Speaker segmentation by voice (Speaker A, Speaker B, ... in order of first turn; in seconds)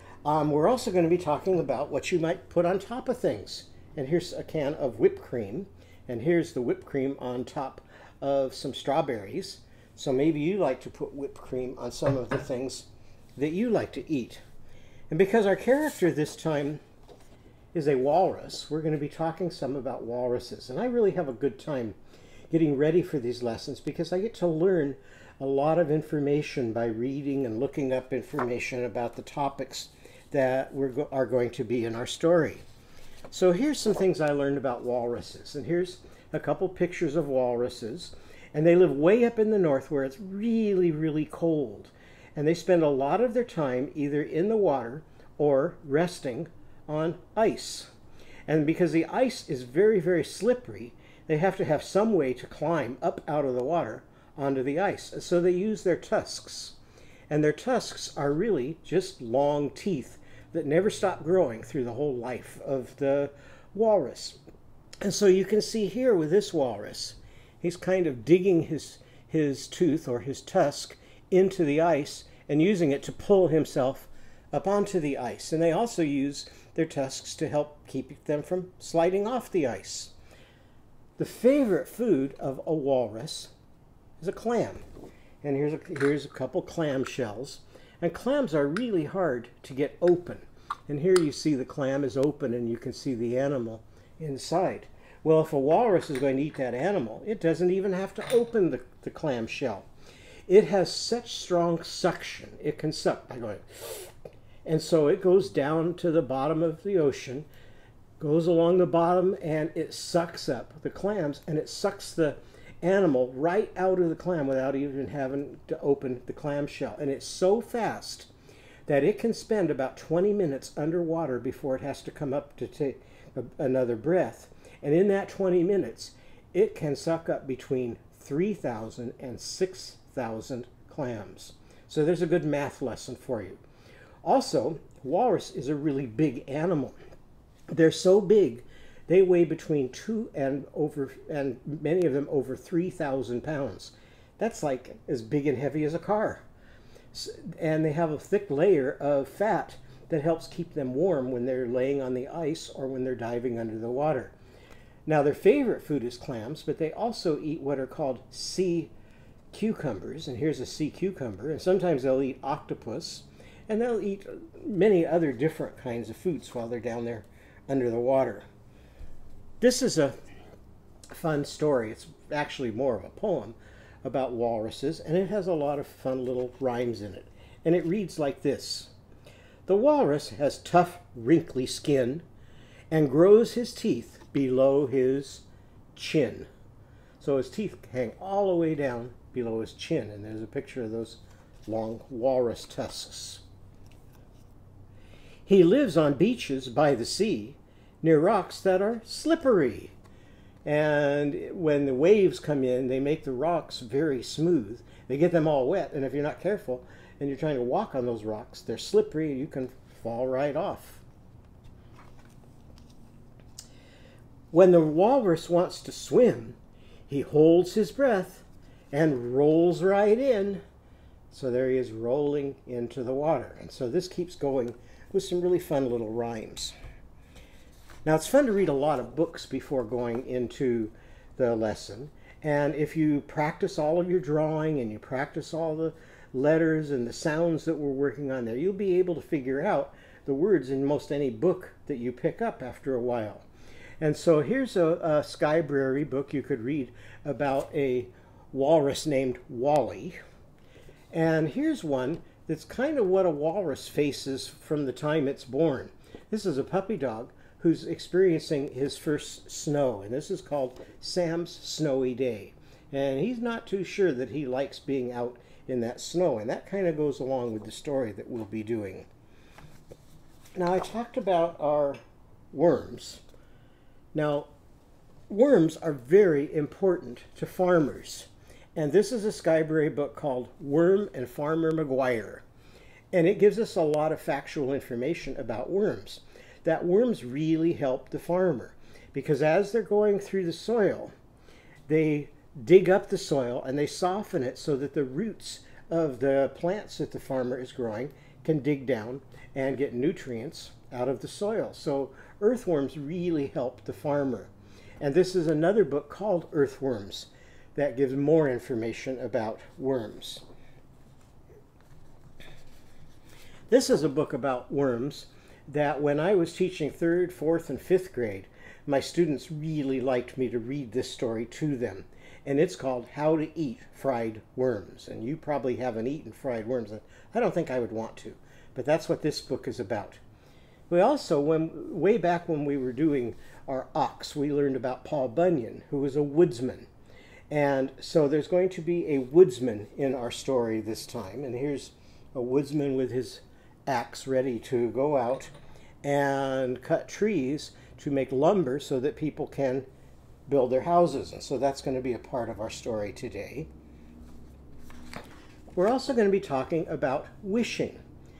Speaker A: 0.2-14.4, 15.1-16.8, 17.7-22.0, 22.5-32.6, 33.3-47.9, 48.5-56.8, 57.3-64.4, 65.0-80.1, 81.2-83.5, 84.2-84.8, 85.4-99.9, 100.5-104.1, 104.7-107.5, 108.2-118.3, 118.9-133.6, 134.2-137.0, 137.7-146.4, 147.1-154.3, 155.1-158.9, 159.5-168.5, 169.6-170.2, 171.1-178.9, 179.7-182.2, 182.9-185.4, 185.9-186.5, 187.2-193.4, 195.5-199.9, 200.7-211.0, 214.5-216.6, 217.1-220.6, 221.3-226.7, 228.1-243.5, 244.0-250.2, 251.1-269.1, 270.6-272.0, 272.5-273.2, 274.1-274.5, 275.3-282.4, 283.1-291.1, 291.9-310.4, 313.7-330.2, 330.9-336.9, 337.5-345.5, 346.0-349.9, 350.5-353.7, 355.7-358.0